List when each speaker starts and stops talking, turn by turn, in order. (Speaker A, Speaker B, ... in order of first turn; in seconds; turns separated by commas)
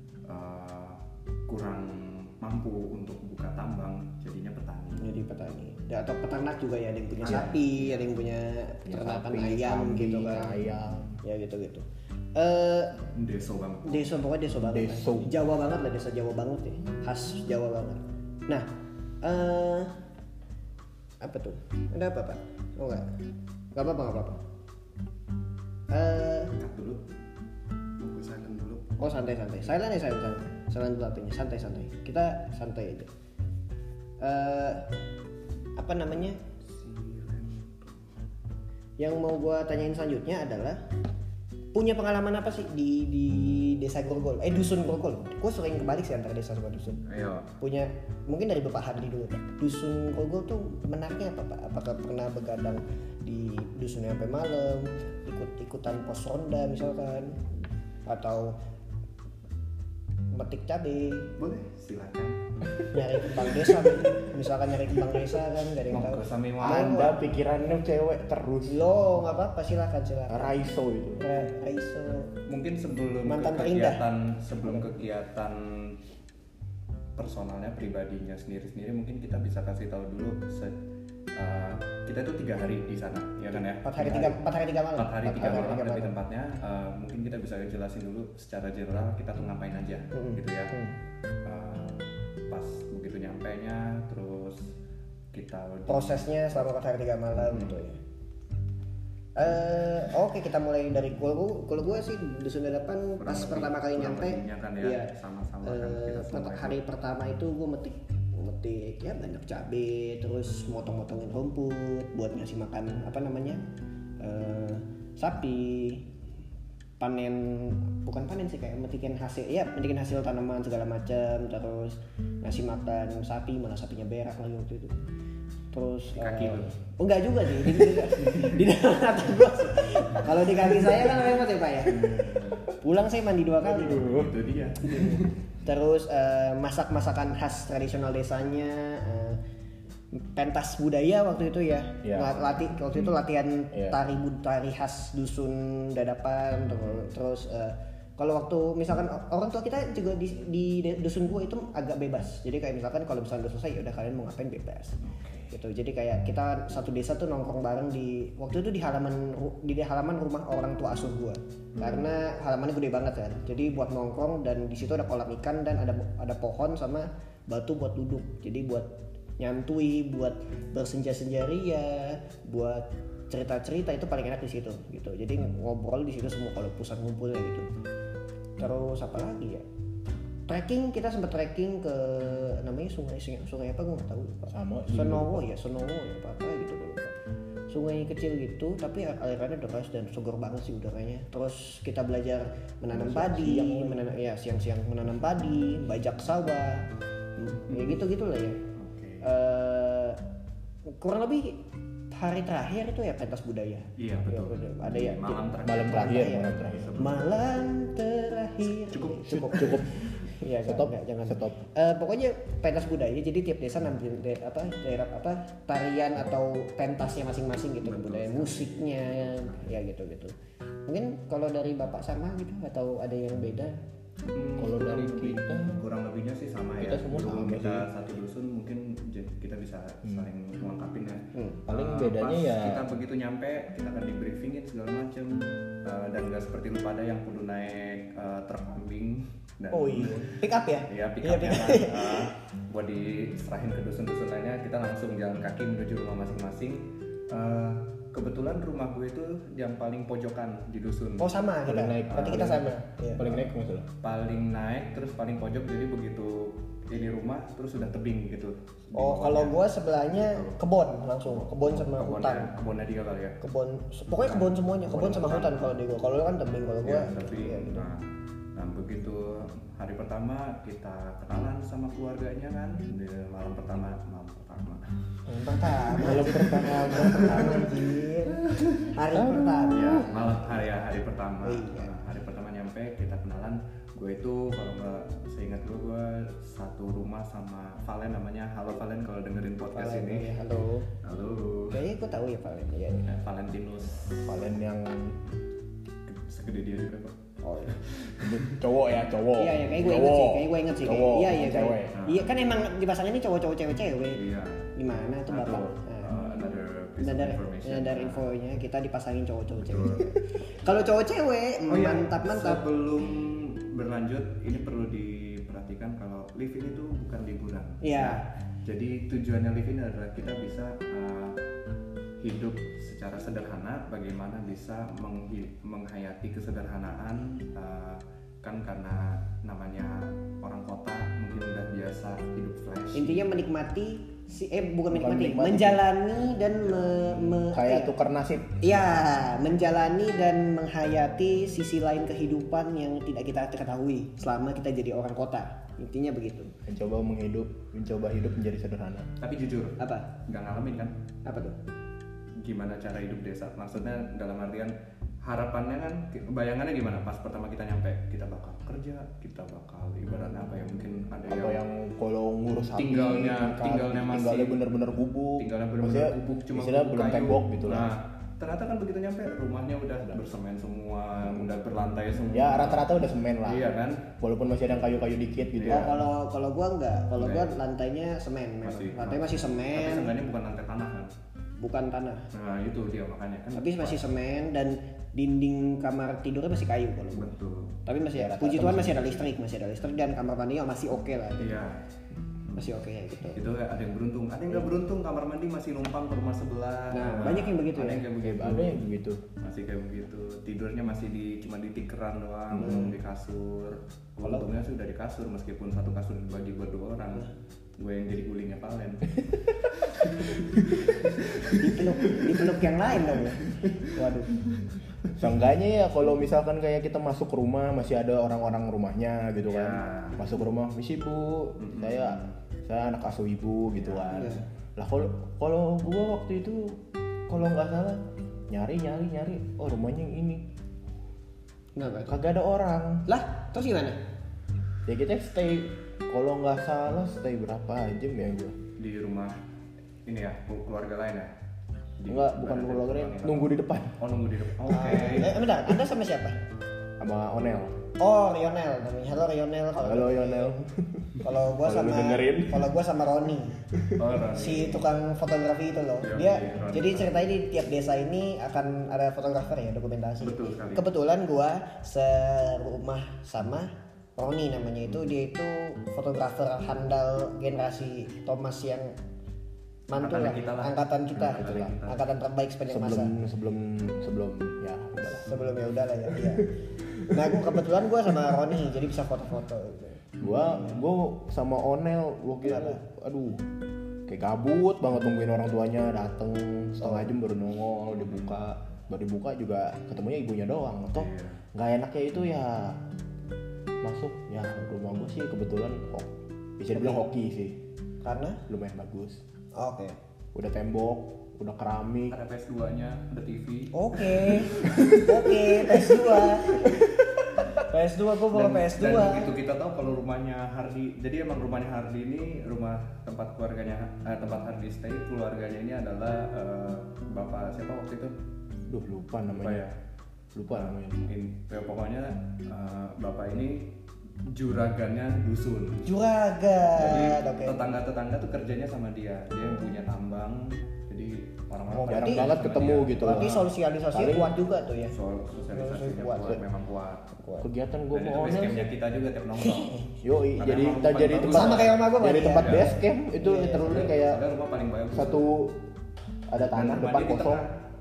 Speaker A: 0.2-5.1, Speaker B: 5.0-10.5, Speaker A: 7.2-8.1, Speaker C: 8.9-11.2, Speaker B: 11.2-13.0, Speaker A: 13.1-14.1, Speaker B: 13.9-18.7, Speaker C: 14.6-15.3, Speaker B: 19.2-19.9, Speaker B: 21.2-23.1, Speaker B: 23.8-24.4, Speaker B: 25.9-26.6, Speaker A: 26.6-27.0, Speaker A: 28.0-28.9, Speaker B: 29.0-33.1, Speaker B: 34.2-34.9, Speaker B: 35.8-36.4, Speaker A: 36.7-38.0, Speaker B: 39.0-40.8, Speaker B: 41.7-47.0, Speaker A: 47.1-47.5, Speaker B: 47.6-57.5, Speaker B: 58.1-58.6, Speaker B: 60.3-61.3, Speaker A: 61.4-62.6, Speaker B: 62.9-67.2, Speaker A: 65.9-67.1, Speaker C: 66.6-68.8, Speaker B: 68.7-70.6, Speaker C: 70.3-71.2, Speaker B: 71.2-72.3, Speaker A: 72.5-76.0, Speaker B: 73.2-74.0, Speaker A: 77.2-80.8, Speaker A: 81.3-84.4, Speaker B: 83.8-86.1, Speaker A: 85.0-90.7, Speaker B: 90.1-91.0, Speaker A: 91.4-94.7, Speaker A: 95.3-96.6, Speaker B: 95.9-98.0, Speaker A: 97.4-97.8, Speaker B: 99.4-105.1, Speaker A: 103.2-106.8, Speaker B: 105.6-113.6, Speaker B: 114.2-116.1, Speaker B: 117.0-124.9, Speaker B: 125.7-132.2, Speaker A: 126.2-126.8, Speaker A: 127.8-128.4, Speaker C: 131.9-132.6, Speaker A: 131.9-132.7, Speaker B: 132.8-134.2, Speaker C: 133.7-134.3, Speaker A: 133.9-135.3, Speaker B: 134.8-139.4, Speaker B: 140.1-155.0, Speaker C: 142.0-142.4, Speaker A: 155.0-155.5, Speaker B: 155.5-177.7, Speaker A: 161.8-162.1, Speaker B: 178.6-179.7, Speaker B: 180.5-187.2, Speaker C: 184.5-185.4, Speaker B: 187.7-196.9, Speaker C: 192.9-194.0, Speaker B: 197.4-198.6, Speaker A: 198.8-199.3, Speaker B: 199.2-200.2, Speaker B: 200.9-220.3, Speaker A: 204.0-207.4, Speaker C: 205.6-207.0, Speaker A: 208.9-209.8, Speaker C: 209.3-210.1, Speaker C: 210.6-211.6, Speaker A: 217.8-219.7, Speaker B: 220.9-223.8, Speaker A: 224.3-251.3, Speaker C: 224.6-225.8, Speaker C: 226.8-227.9, Speaker B: 231.3-231.6, Speaker C: 231.7-232.8, Speaker B: 239.7-242.3, Speaker B: 251.2-253.3, Speaker C: 251.7-253.9, Speaker A: 254.0-259.6, Speaker B: 258.9-262.5, Speaker A: 260.1-260.6, Speaker A: 261.3-263.4, Speaker B: 263.4-267.9, Speaker A: 264.2-265.7, Speaker A: 266.8-268.0, Speaker A: 268.6-274.9, Speaker B: 275.3-280.1, Speaker C: 276.0-277.7, Speaker A: 277.0-277.4, Speaker C: 279.1-280.1, Speaker A: 279.7-290.3, Speaker B: 281.4-281.9, Speaker B: 289.7-290.9, Speaker A: 291.0-291.9, Speaker B: 291.7-293.1, Speaker A: 293.1-294.4, Speaker C: 294.2-295.2, Speaker A: 296.1-298.6, Speaker B: 297.4-297.8, Speaker C: 298.2-302.0, Speaker B: 299.4-304.2, Speaker A: 301.9-302.3, Speaker A: 304.1-304.7, Speaker B: 304.8-306.1, Speaker A: 305.3-308.3, Speaker B: 307.0-312.6, Speaker A: 309.7-310.1, Speaker A: 311.7-321.4, Speaker B: 317.8-318.2, Speaker A: 322.2-333.3, Speaker B: 332.9-337.9, Speaker C: 334.9-335.8, Speaker A: 336.6-337.2, Speaker C: 337.4-339.0, Speaker B: 338.6-346.5, Speaker C: 346.7-349.1, Speaker A: 349.2-350.9, Speaker B: 349.8-350.1, Speaker B: 351.2-351.6, Speaker A: 352.4-361.6, Speaker C: 361.3-367.9, Speaker A: 362.8-364.6, Speaker A: 365.4-372.9, Speaker C: 372.3-376.0, Speaker A: 373.4-374.1, Speaker A: 375.6-375.9, Speaker B: 375.7-380.1, Speaker A: 377.2-377.5, Speaker A: 378.6-381.1, Speaker B: 381.6-382.3, Speaker A: 382.3-384.0, Speaker B: 383.5-387.3, Speaker A: 387.1-387.8, Speaker B: 387.9-391.6, Speaker C: 388.1-389.3, Speaker A: 391.4-391.8, Speaker A: 392.5-392.7, Speaker B: 392.6-393.4, Speaker A: 393.3-398.9, Speaker B: 396.9-398.1, Speaker C: 398.2-399.2, Speaker A: 399.4-409.2, Speaker C: 402.6-402.8, Speaker B: 402.6-402.9, Speaker A: 409.7-412.2, Speaker B: 411.5-414.3, Speaker A: 413.5-413.9, Speaker C: 415.2-430.4, Speaker A: 419.5-420.3, Speaker A: 421.6-422.4, Speaker A: 423.8-424.3, Speaker B: 424.1-424.4, Speaker B: 431.8-432.2, Speaker C: 432.1-433.1, Speaker B: 433.1-434.0, Speaker C: 434.9-438.6, Speaker A: 438.8-439.4, Speaker A: 440.1-441.3, Speaker A: 442.0-445.4, Speaker C: 442.1-444.0, Speaker B: 444.7-446.4, Speaker C: 447.0-447.8, Speaker B: 448.0-450.6, Speaker C: 449.8-452.7, Speaker B: 451.2-453.6, Speaker C: 453.7-454.0, Speaker A: 454.0-454.9, Speaker B: 454.3-468.9, Speaker A: 456.0-457.2, Speaker A: 460.2-460.9, Speaker B: 469.9-473.1, Speaker A: 470.0-472.0, Speaker C: 471.2-471.8, Speaker C: 472.7-475.3, Speaker B: 475.1-476.6, Speaker C: 476.1-477.6, Speaker B: 477.1-480.1, Speaker C: 480.2-483.4, Speaker A: 480.2-480.7, Speaker B: 482.4-482.8, Speaker C: 484.1-492.8, Speaker A: 490.9-491.4, Speaker C: 493.8-497.6, Speaker B: 496.8-497.0, Speaker B: 498.0-498.4, Speaker C: 498.5-499.2, Speaker B: 499.6-500.0, Speaker C: 500.3-502.2, Speaker A: 502.1-504.9, Speaker B: 503.7-506.8, Speaker C: 504.6-505.1, Speaker C: 505.7-506.1, Speaker C: 506.6-506.9, Speaker B: 507.6-509.3, Speaker A: 508.3-518.1, Speaker C: 518.7-519.6, Speaker A: 519.3-519.8, Speaker C: 520.4-521.1, Speaker A: 520.5-523.7, Speaker A: 524.2-525.9, Speaker B: 525.9-527.6, Speaker A: 526.8-533.5, Speaker C: 531.8-534.3, Speaker B: 531.8-532.3, Speaker B: 533.0-534.9, Speaker A: 534.9-537.1, Speaker B: 535.5-536.4, Speaker B: 537.2-537.5, Speaker C: 537.4-538.7, Speaker A: 537.9-539.8, Speaker B: 539.4-539.9, Speaker C: 540.0-544.2, Speaker A: 540.4-542.7, Speaker B: 541.3-543.8, Speaker A: 543.5-545.3, Speaker C: 544.9-545.6, Speaker C: 546.3-547.5, Speaker A: 546.5-547.5